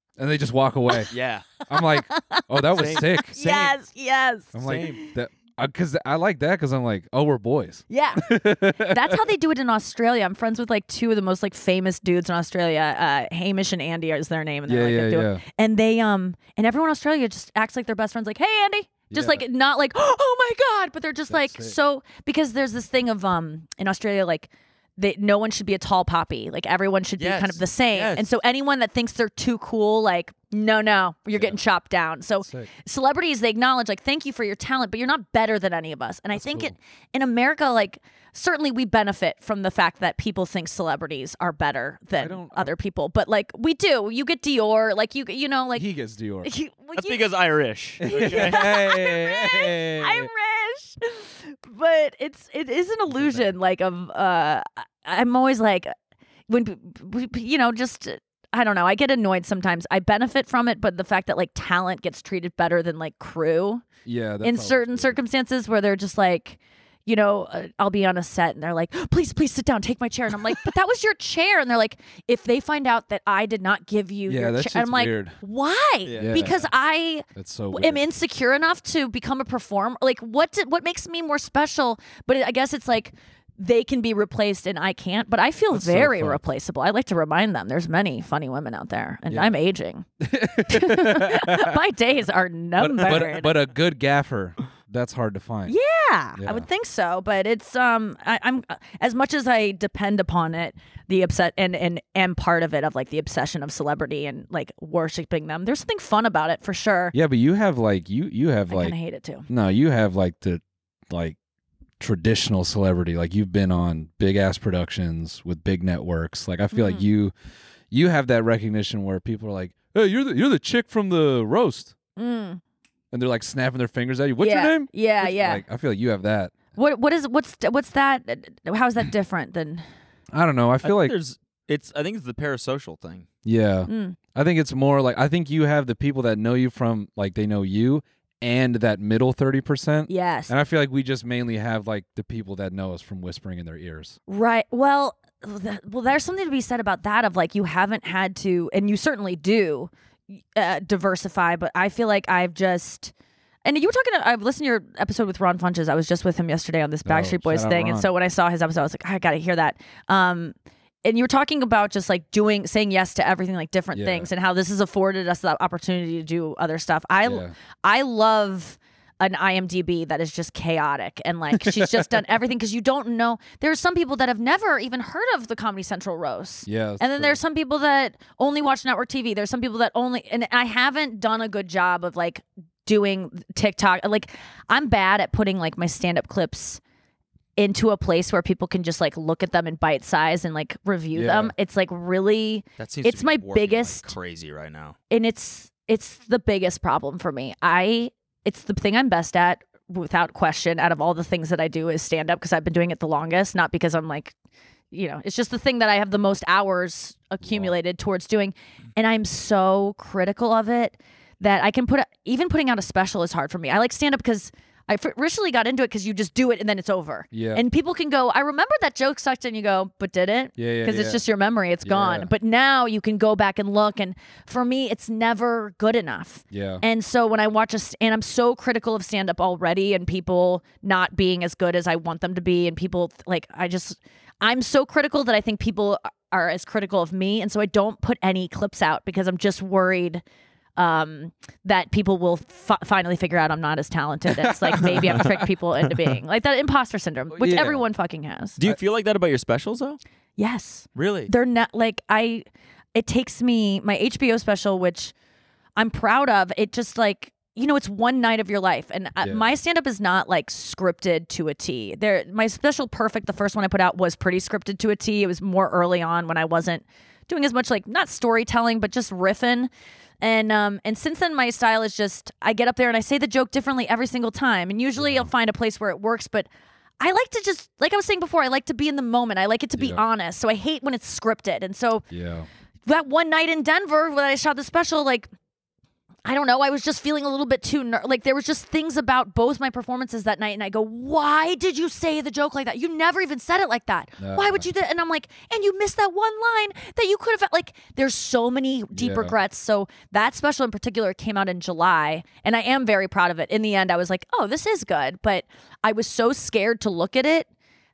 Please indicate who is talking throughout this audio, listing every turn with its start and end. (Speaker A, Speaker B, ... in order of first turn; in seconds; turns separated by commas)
Speaker A: 0.2-1.1, Speaker B: 1.1-1.5, Speaker A: 1.7-3.7, Speaker C: 1.7-5.1, Speaker B: 2.8-3.5, Speaker A: 4.5-9.2, Speaker B: 4.6-5.0, Speaker C: 7.9-45.9, Speaker A: 14.7-15.4, Speaker A: 19.1-19.4, Speaker A: 21.3-21.8, Speaker B: 27.2-28.3, Speaker A: 32.4-32.7, Speaker A: 36.3-36.8, Speaker A: 42.2-42.7, Speaker A: 45.8-46.5, Speaker C: 46.4-47.2, Speaker B: 47.0-48.7, Speaker A: 48.0-50.3, Speaker C: 48.0-55.9, Speaker A: 53.1-53.5, Speaker C: 56.5-63.9, Speaker A: 64.0-65.2, Speaker C: 64.4-90.1, Speaker A: 74.3-75.4, Speaker B: 76.1-76.5, Speaker A: 76.2-76.7, Speaker A: 77.3-78.0, Speaker A: 85.7-86.4, Speaker A: 89.3-89.6, Speaker A: 90.2-91.8, Speaker C: 90.6-93.5, Speaker A: 92.8-95.8, Speaker C: 95.7-107.1, Speaker A: 96.4-96.7, Speaker A: 107.1-109.0, Speaker C: 108.7-109.5, Speaker A: 109.5-111.4, Speaker A: 112.0-117.3, Speaker C: 116.7-117.1, Speaker A: 117.9-122.0, Speaker C: 122.2-122.6, Speaker A: 123.1-126.6, Speaker C: 124.4-125.6, Speaker C: 126.8-129.8, Speaker A: 130.3-131.2, Speaker B: 130.8-133.3, Speaker A: 133.4-144.2, Speaker C: 133.9-134.2, Speaker C: 140.1-140.5, Speaker C: 144.3-153.1, Speaker C: 153.7-186.8, Speaker A: 157.0-158.1, Speaker A: 163.9-164.3, Speaker A: 167.2-167.5, Speaker A: 171.6-172.1, Speaker A: 176.7-177.4, Speaker C: 187.6-194.1, Speaker A: 191.1-191.5, Speaker B: 192.8-194.9, Speaker C: 195.1-204.3, Speaker C: 204.9-240.2, Speaker A: 207.4-207.7, Speaker A: 217.3-217.6, Speaker A: 220.6-221.2, Speaker A: 221.8-222.3, Speaker A: 226.5-226.8, Speaker C: 240.8-248.6, Speaker A: 244.7-245.4, Speaker A: 247.3-247.8, Speaker B: 248.6-250.0, Speaker C: 250.4-255.1, Speaker B: 250.9-251.3, Speaker C: 255.8-269.7, Speaker A: 259.2-259.5, Speaker C: 270.2-276.5, Speaker A: 275.0-275.3, Speaker C: 277.0-282.1, Speaker A: 279.8-280.0, Speaker A: 282.1-282.5, Speaker C: 282.9-285.3, Speaker C: 286.2-307.5, Speaker A: 294.2-294.7, Speaker A: 298.9-299.4